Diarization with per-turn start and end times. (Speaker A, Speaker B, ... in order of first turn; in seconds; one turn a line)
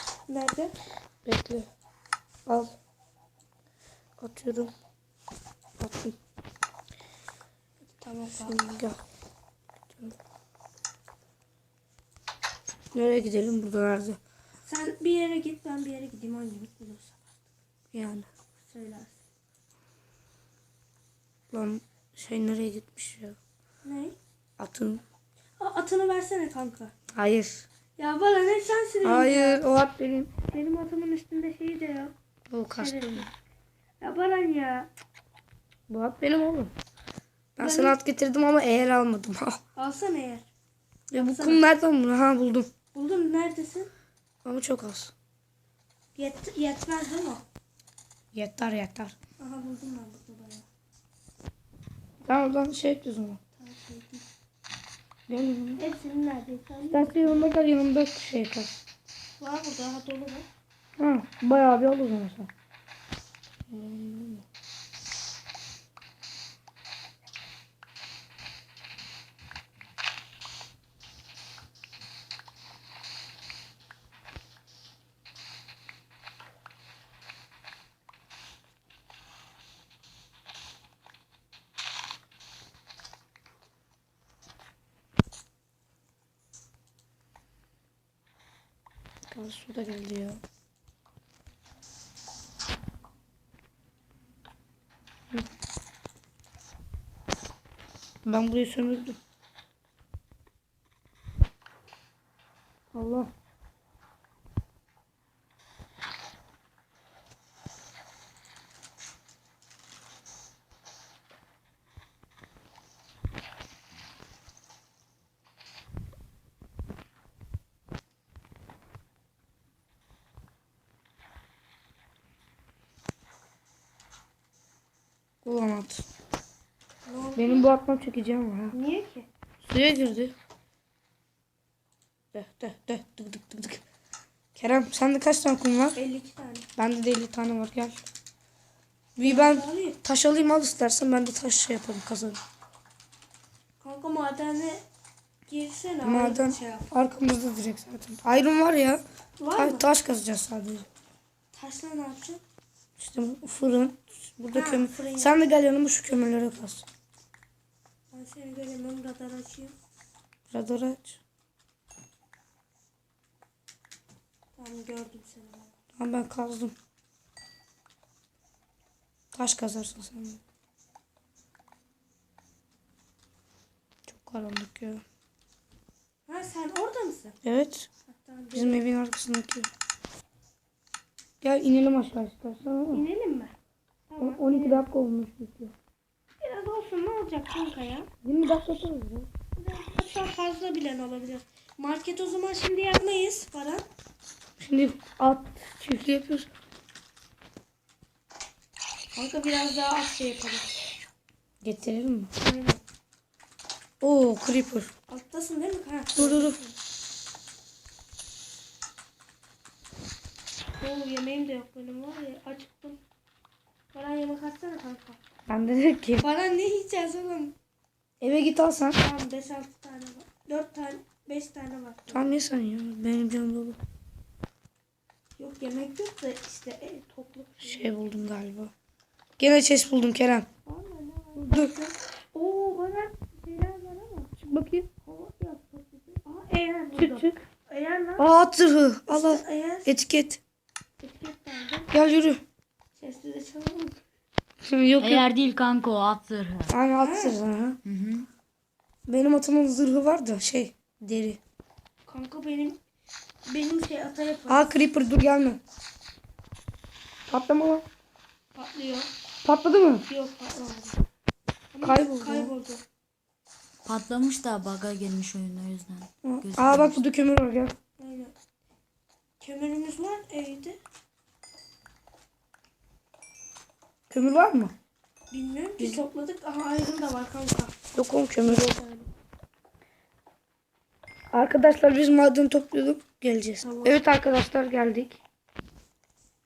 Speaker A: 0.3-0.7
Speaker B: 1.2-1.7
Speaker B: 2.5-2.7
Speaker B: 4.2-4.7
Speaker B: 5.8-6.2
Speaker A: 8.0-8.6
Speaker B: 8.4-9.0
Speaker B: 12.9-14.2
Speaker A: 14.7-17.4
Speaker B: 17.9-18.3
Speaker A: 18.6-19.2
Speaker B: 21.5-23.4
Speaker A: 23.8-24.1
Speaker B: 24.6-25.0
Speaker A: 25.6-26.9
Speaker B: 27.1-27.6
Speaker A: 28.0-29.6
Speaker B: 29.0-30.3
Speaker A: 30.4-32.1
Speaker B: 32.5-33.3
Speaker A: 32.8-33.3
Speaker A: 34.0-34.9
Speaker B: 35.9-36.7
Speaker B: 37.6-39.6
Speaker A: 37.6-38.0
Speaker A: 39.7-40.5
Speaker B: 41.1-42.7
Speaker A: 41.2-41.6
Speaker A: 42.9-43.9
Speaker B: 44.4-45.1
Speaker A: 46.1-47.4
Speaker B: 48.3-49.1
Speaker A: 49.4-50.7
Speaker B: 52.2-53.4
Speaker A: 53.5-54.3
Speaker B: 55.3-55.8
Speaker A: 55.8-57.5
Speaker B: 56.9-58.8
Speaker A: 59.4-60.5
Speaker B: 61.0-62.5
Speaker B: 63.7-64.4
Speaker B: 89.3-90.4
Speaker B: 98.2-99.2
Speaker B: 102.9-103.3
Speaker B: 125.4-126.0
Speaker A: 127.1-127.7
Speaker B: 127.3-128.7
Speaker A: 128.7-129.3
Speaker B: 129.6-130.3
Speaker B: 132.3-133.8
Speaker B: 134.6-136.0
Speaker A: 135.9-136.7
Speaker B: 136.8-138.0
Speaker B: 139.2-142.4
Speaker A: 139.2-140.0
Speaker A: 143.8-144.8
Speaker A: 145.5-146.9
Speaker B: 146.0-149.0
Speaker A: 149.4-149.8
Speaker B: 149.5-150.9
Speaker A: 151.5-152.4
Speaker B: 153.0-156.9
Speaker A: 154.5-155.4
Speaker A: 158.1-159.7
Speaker B: 160.5-161.2
Speaker A: 164.6-165.7
Speaker B: 166.0-166.7
Speaker B: 169.3-170.4
Speaker B: 174.1-175.0
Speaker A: 176.3-177.4
Speaker B: 177.4-177.9
Speaker A: 178.1-178.8
Speaker B: 178.5-179.7
Speaker B: 181.4-183.0
Speaker A: 182.9-183.5
Speaker A: 184.1-184.8
Speaker B: 184.2-185.7
Speaker A: 186.4-188.1
Speaker B: 188.2-189.3
Speaker A: 189.6-193.8
Speaker B: 194.6-196.5
Speaker A: 199.1-200.7
Speaker B: 201.6-202.3
Speaker A: 202.4-202.8
Speaker B: 204.0-204.9
Speaker A: 205.1-206.8
Speaker B: 206.1-206.6
Speaker A: 210.8-213.0
Speaker A: 213.9-215.2
Speaker B: 215.5-216.3
Speaker A: 216.2-217.5
Speaker B: 218.2-219.0
Speaker A: 218.9-222.4
Speaker B: 222.1-223.8
Speaker A: 225.4-227.9
Speaker B: 227.7-228.7
Speaker B: 229.4-230.5
Speaker A: 230.6-234.3
Speaker B: 231.4-231.7
Speaker B: 234.4-234.9
Speaker A: 235.0-238.2
Speaker B: 236.9-237.3
Speaker B: 238.2-240.4
Speaker A: 239.1-239.9
Speaker A: 241.0-241.9
Speaker B: 241.9-242.4
Speaker A: 243.0-244.0
Speaker B: 244.6-245.2
Speaker C: 245.0-246.7
Speaker B: 246.7-247.8
Speaker A: 247.0-247.4
Speaker C: 247.8-248.3
Speaker B: 249.1-251.4
Speaker A: 252.1-252.8
Speaker A: 253.4-254.7
Speaker B: 254.5-255.6
Speaker B: 257.3-257.9
Speaker A: 258.5-259.1
Speaker B: 259.4-260.0
Speaker A: 260.1-261.0
Speaker A: 261.7-262.8
Speaker B: 261.8-262.5
Speaker C: 263.8-267.0
Speaker B: 266.2-267.7
Speaker A: 268.0-268.3
Speaker A: 269.4-270.8
Speaker B: 274.1-274.7
Speaker A: 275.3-277.7
Speaker B: 277.9-278.7
Speaker A: 278.4-279.1
Speaker B: 281.3-285.2
Speaker A: 283.6-284.0